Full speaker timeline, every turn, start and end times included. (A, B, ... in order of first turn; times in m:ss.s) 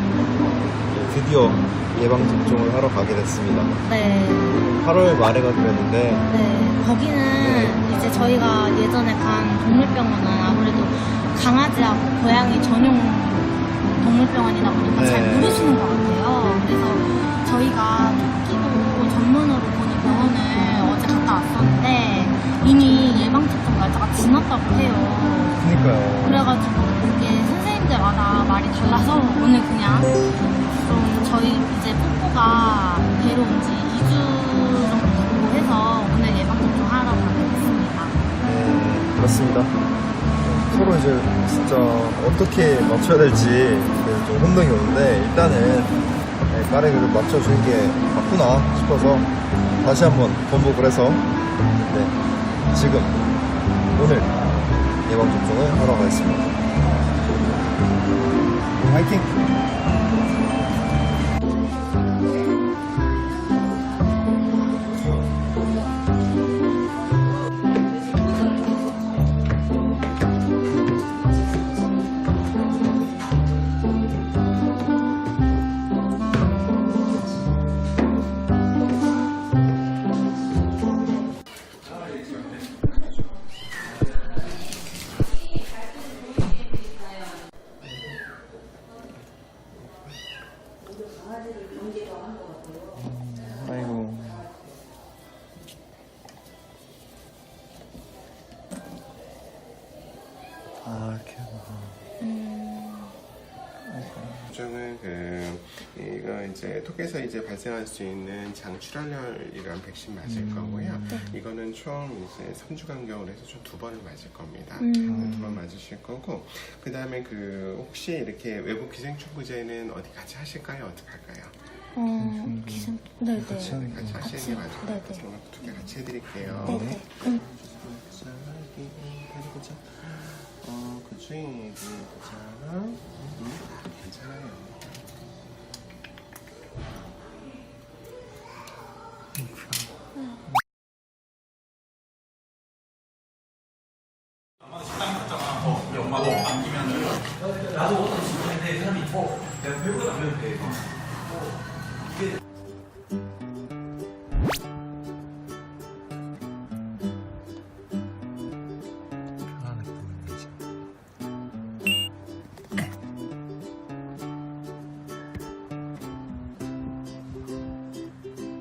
0:00.4-0:03.8 A
0:03.8-0:04.6 B
0:04.5-0:06.2 A
0:06.3-0:38.2 B
0:07.4-0:07.8 A
0:14.9-0:15.8 A
0:25.6-0:26.5 A
0:38.4-0:39.7 A
0:40.4-0:51.2 A
0:51.8-0:52.1 A
0:52.7-0:53.2 A
0:53.9-0:54.3 A
0:55.1-0:56.5 A
0:58.8-0:59.3 A
1:33.0-1:34.5 A
1:40.8-1:42.0 A
1:42.2-1:43.1 B
1:43.8-1:44.4 A
1:44.5-2:01.6 C
1:50.2-1:51.4 A
1:54.8-1:55.4 B
1:55.0-1:55.6 A
2:01.9-2:05.2 B
2:02.2-2:04.3 A
2:03.5-2:15.2 C
2:06.4-2:07.0 A
2:06.6-2:07.4 B
2:19.4-2:19.8 A
2:30.0-2:30.4 A
2:39.5-2:40.5 A